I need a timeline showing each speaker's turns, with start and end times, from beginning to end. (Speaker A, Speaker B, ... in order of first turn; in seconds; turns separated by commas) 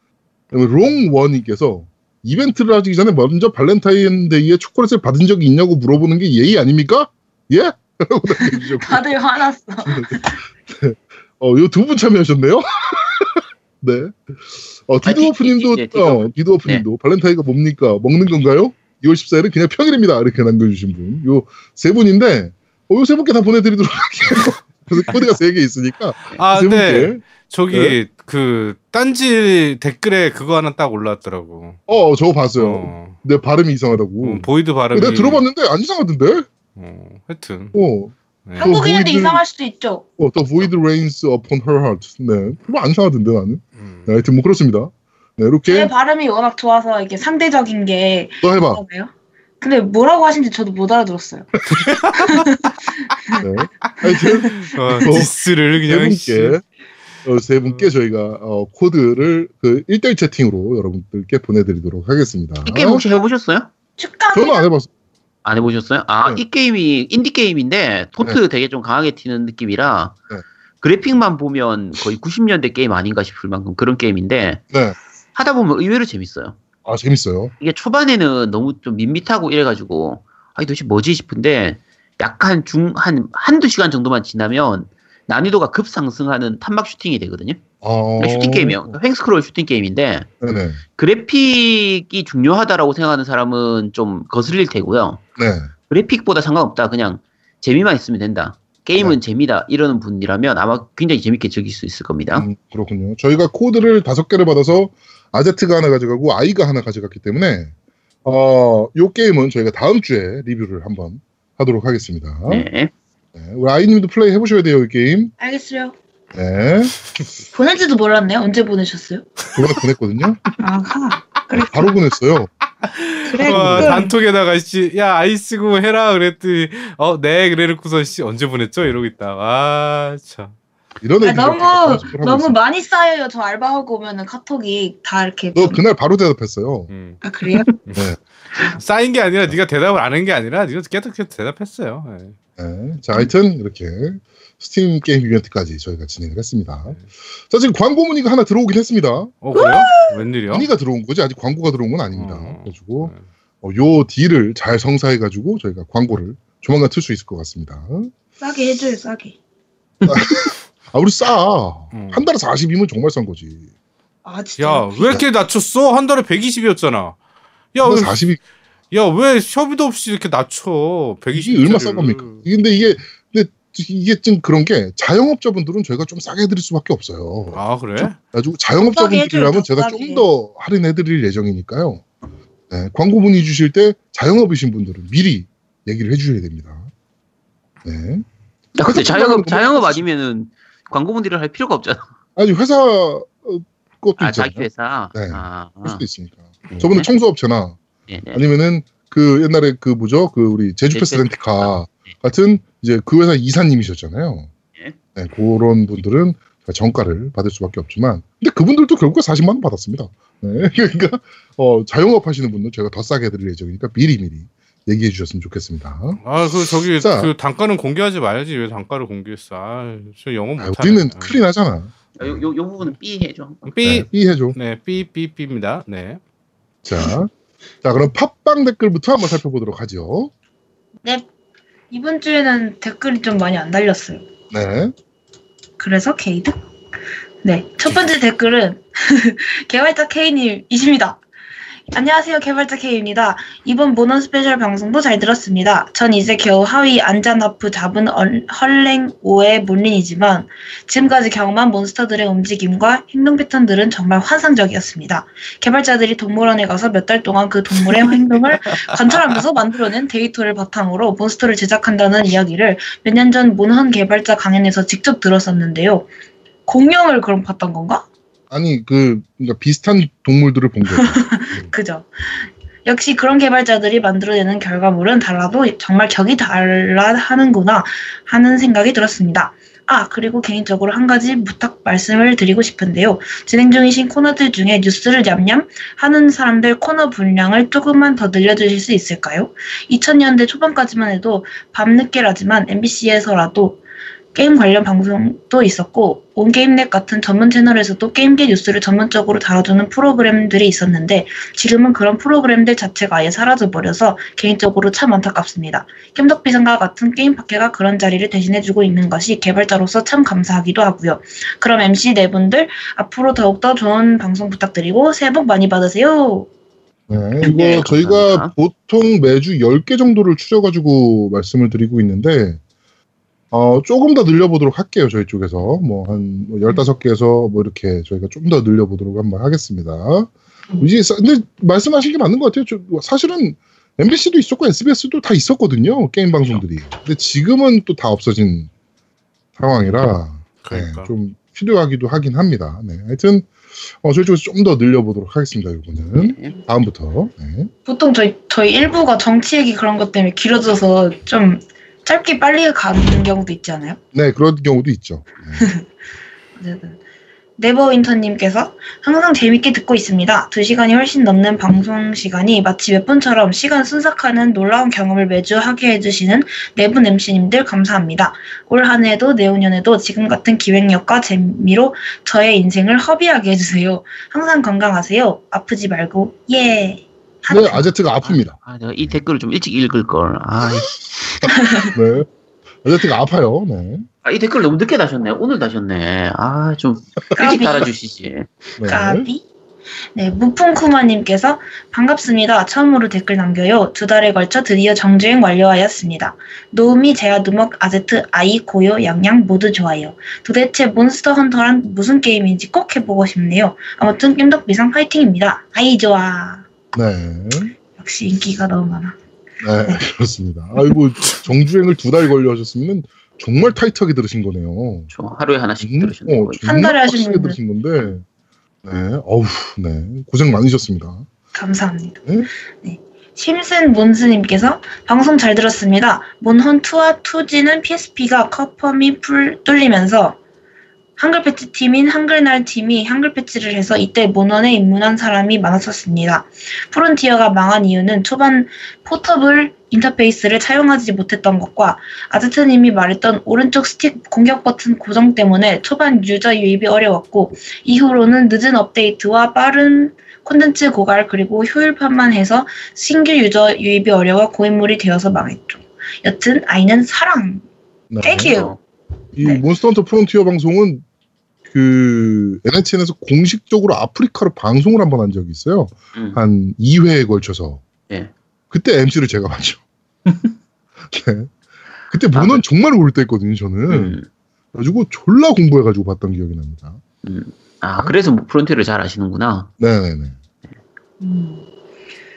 Speaker A: 0.5-9.1, Speaker B: 8.4-10.4, Speaker A: 9.8-27.9, Speaker C: 15.0-16.8, Speaker D: 26.4-31.8, Speaker A: 31.9-36.5, Speaker D: 32.6-33.2, Speaker D: 34.2-35.5, Speaker D: 36.8-37.8, Speaker A: 37.7-39.4, Speaker D: 38.5-38.7, Speaker B: 38.6-40.0, Speaker A: 40.2-45.9, Speaker D: 43.8-44.1, Speaker B: 45.7-49.1, Speaker A: 48.4-48.8, Speaker B: 49.6-51.5, Speaker D: 51.7-52.4, Speaker B: 52.1-53.5, Speaker A: 53.4-56.6, Speaker B: 54.0-55.1, Speaker D: 54.5-56.6, Speaker A: 57.2-63.1, Speaker C: 62.6-63.7, Speaker B: 64.0-64.7, Speaker A: 64.3-64.9, Speaker C: 65.5-70.2, Speaker C: 70.8-74.6, Speaker A: 74.7-75.0, Speaker C: 75.3-76.6, Speaker A: 76.8-77.5, Speaker C: 77.6-87.6, Speaker A: 87.8-89.0, Speaker C: 88.2-90.3, Speaker A: 90.4-90.8, Speaker C: 91.0-95.2, Speaker A: 95.4-95.7, Speaker C: 95.9-102.5, Speaker A: 102.3-107.7, Speaker A: 108.2-112.7, Speaker C: 112.5-112.9, Speaker A: 113.3-115.3, Speaker B: 115.4-116.0, Speaker A: 116.3-117.0, Speaker B: 117.5-119.3, Speaker A: 119.5-120.4, Speaker B: 120.6-122.0, Speaker A: 121.7-122.5, Speaker D: 122.8-130.5, Speaker B: 123.3-124.1, Speaker A: 123.5-124.0, Speaker A: 131.0-132.6, Speaker B: 131.2-135.8, Speaker A: 135.6-136.9, Speaker D: 136.9-137.2, Speaker B: 137.2-137.7, Speaker D: 138.7-142.4, Speaker A: 142.6-147.0, Speaker A: 147.5-149.3, Speaker D: 149.4-150.7, Speaker B: 149.6-150.1, Speaker A: 150.5-158.1, Speaker D: 152.1-153.2, Speaker B: 158.4-159.4, Speaker A: 160.1-163.7, Speaker D: 161.9-162.2, Speaker B: 164.2-165.2, Speaker D: 164.6-167.2, Speaker D: 167.8-168.3, Speaker A: 167.8-168.4, Speaker D: 168.9-172.4, Speaker A: 171.3-182.0, Speaker D: 177.5-178.2, Speaker B: 178.8-180.3, Speaker A: 182.7-186.9, Speaker A: 187.8-188.2, Speaker C: 188.8-192.1, Speaker A: 188.8-190.0, Speaker A: 192.4-197.8, Speaker C: 194.2-196.0, Speaker C: 196.7-197.1, Speaker C: 198.1-198.4, Speaker A: 198.3-204.5, Speaker C: 200.9-201.7, Speaker A: 205.2-216.2, Speaker D: 216.2-221.3, Speaker A: 216.9-217.3, Speaker A: 220.6-222.4, Speaker C: 222.2-223.7, Speaker D: 223.7-226.2, Speaker A: 223.8-224.6, Speaker A: 226.8-227.3, Speaker A: 227.8-230.3, Speaker B: 231.9-234.2, Speaker A: 234.5-234.9, Speaker B: 235.8-236.6, Speaker B: 237.4-241.2, Speaker B: 241.9-266.1, Speaker B: 266.7-268.1, Speaker A: 268.5-271.6, Speaker B: 270.9-293.8, Speaker B: 294.4-316.5, Speaker A: 317.1-322.6, Speaker C: 317.4-318.5, Speaker A: 323.5-338.7, Speaker A: 339.6-347.7, Speaker D: 340.6-341.1, Speaker C: 346.1-346.6, Speaker B: 347.9-354.0, Speaker A: 354.1-355.7, Speaker B: 356.6-357.0, Speaker B: 357.6-377.9, Speaker A: 377.5-379.2, Speaker C: 378.2-381.4, Speaker B: 381.5-381.9, Speaker A: 381.9-382.3, Speaker A: 382.8-384.1, Speaker C: 384.2-388.5, Speaker B: 387.4-387.9, Speaker A: 388.8-389.3, Speaker B: 388.8-389.4, Speaker B: 390.1-406.6, Speaker A: 406.9-407.7, Speaker B: 408.0-409.2, Speaker A: 409.6-415.1, Speaker C: 415.1-416.6, Speaker A: 415.8-418.2, Speaker B: 416.6-417.6, Speaker A: 418.8-421.3, Speaker B: 421.5-422.3, Speaker B: 422.8-430.4, Speaker B: 431.2-457.6, Speaker A: 458.1-458.5, Speaker B: 458.2-458.8, Speaker C: 458.4-458.8, Speaker A: 459.4-461.0, Speaker A: 461.7-467.8, Speaker A: 468.7-469.8, Speaker C: 470.3-470.5, Speaker A: 471.1-471.5, Speaker A: 472.1-474.2, Speaker C: 472.3-472.6, Speaker C: 473.9-474.3, Speaker A: 474.7-477.0, Speaker C: 477.2-479.7, Speaker A: 479.8-480.4, Speaker B: 481.2-481.6